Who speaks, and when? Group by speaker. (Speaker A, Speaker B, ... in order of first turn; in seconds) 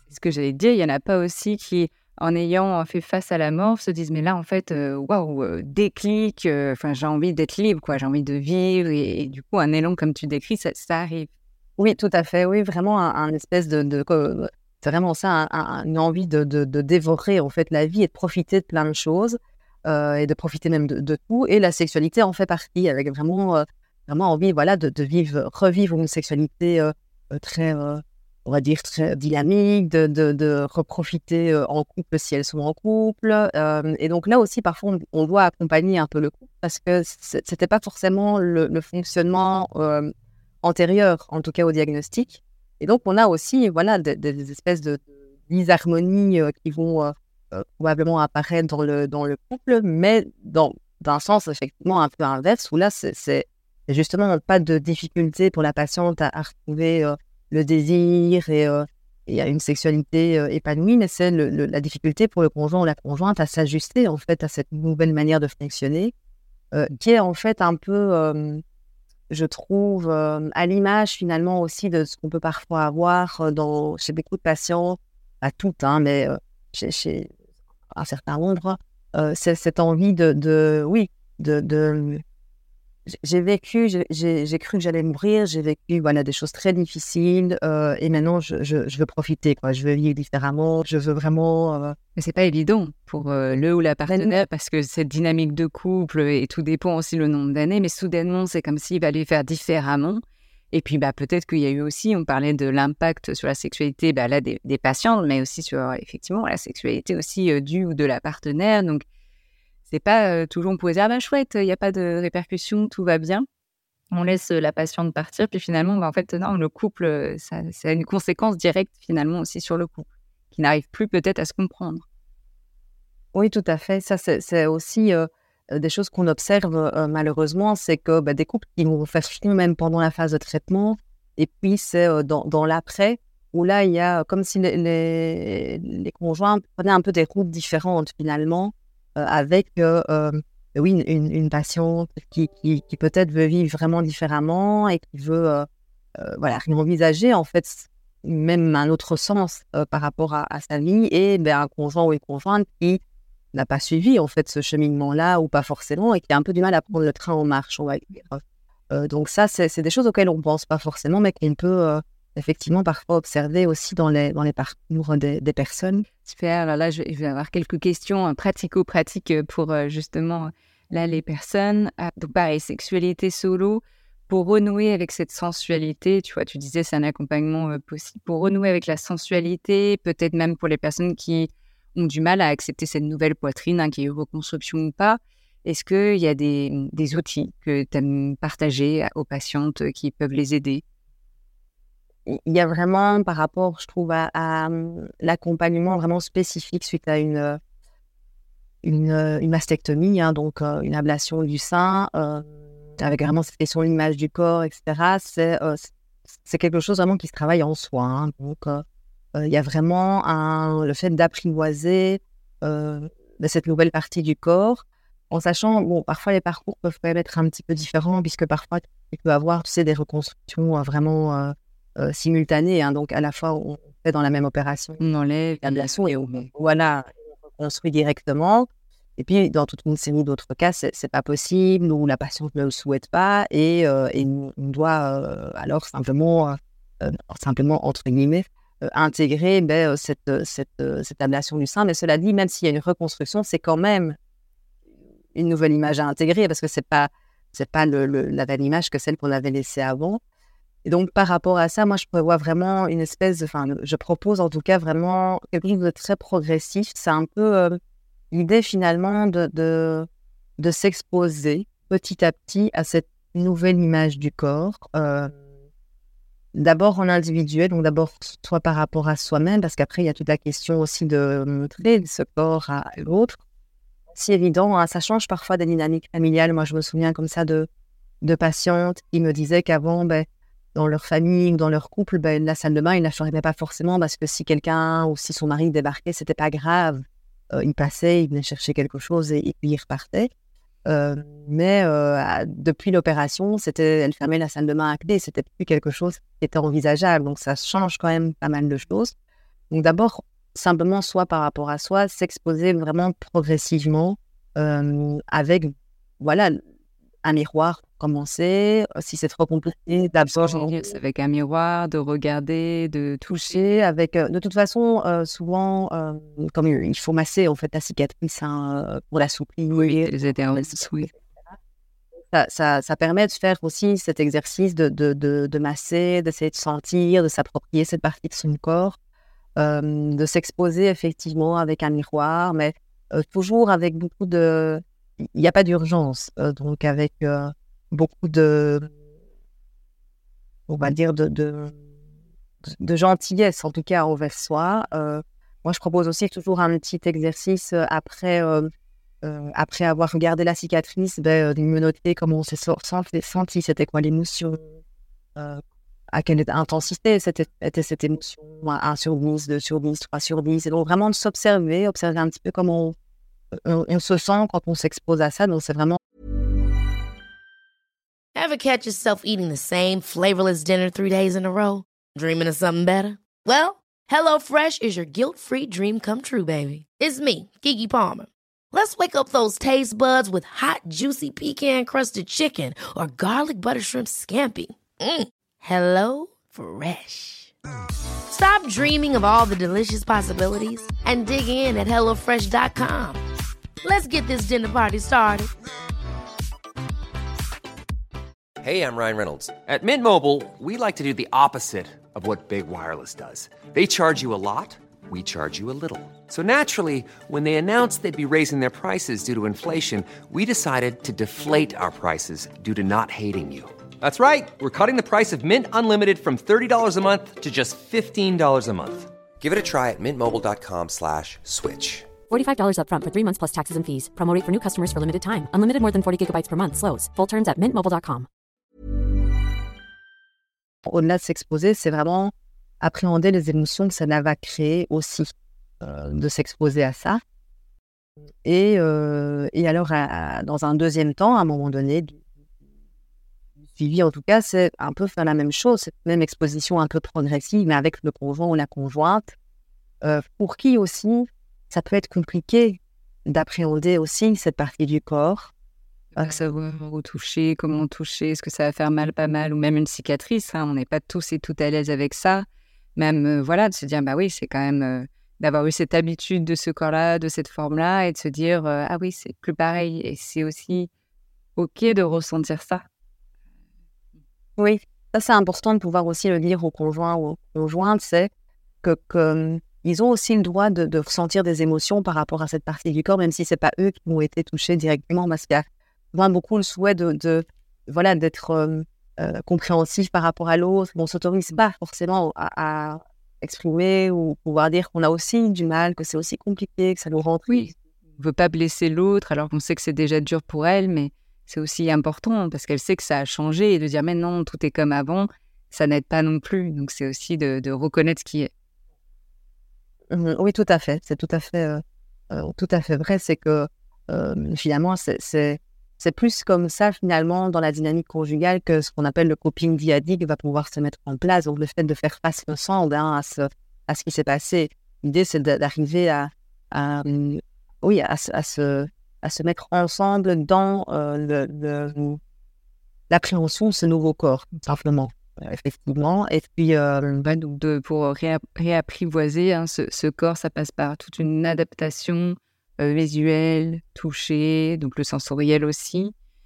Speaker A: 0.1-11.3, 92.2-100.2, 100.7-109.0, 109.9-113.5, 114.1-122.0, 166.2-190.8, 225.0-226.5, 310.3-313.5, 319.7-321.1, 456.1-470.9, 471.6-472.9, 497.5-508.5, 537.2-546.1
Speaker B: 11.8-40.1, 40.6-66.1, 66.7-68.6, 69.3-77.3, 77.9-82.2, 83.1-92.0, 94.1-94.4, 123.3-153.0, 153.5-166.1, 192.3-197.6, 198.8-202.5, 203.0-225.0, 225.6-244.2, 245.3-250.2, 250.8-257.8, 258.3-260.1, 260.6-265.4, 266.5-273.4, 274.1-277.7, 278.2-290.3, 290.9-299.1, 299.7-306.6, 307.2-310.9, 313.3-320.1, 321.1-321.5, 322.3-329.0, 329.6-338.9, 340.7-341.7, 342.7-348.7, 349.2-354.7, 355.4-363.0, 363.5-366.0, 430.9-435.3, 435.8-437.2, 438.4-442.2, 443.8-449.4, 450.0-455.5, 456.2-456.4, 474.6-478.3, 478.8-497.6, 510.1-532.2, 533.1-537.2
Speaker C: 368.4-387.5, 388.3-393.2, 393.8-395.5
Speaker D: 398.6-422.2
Speaker E: 422.3-428.3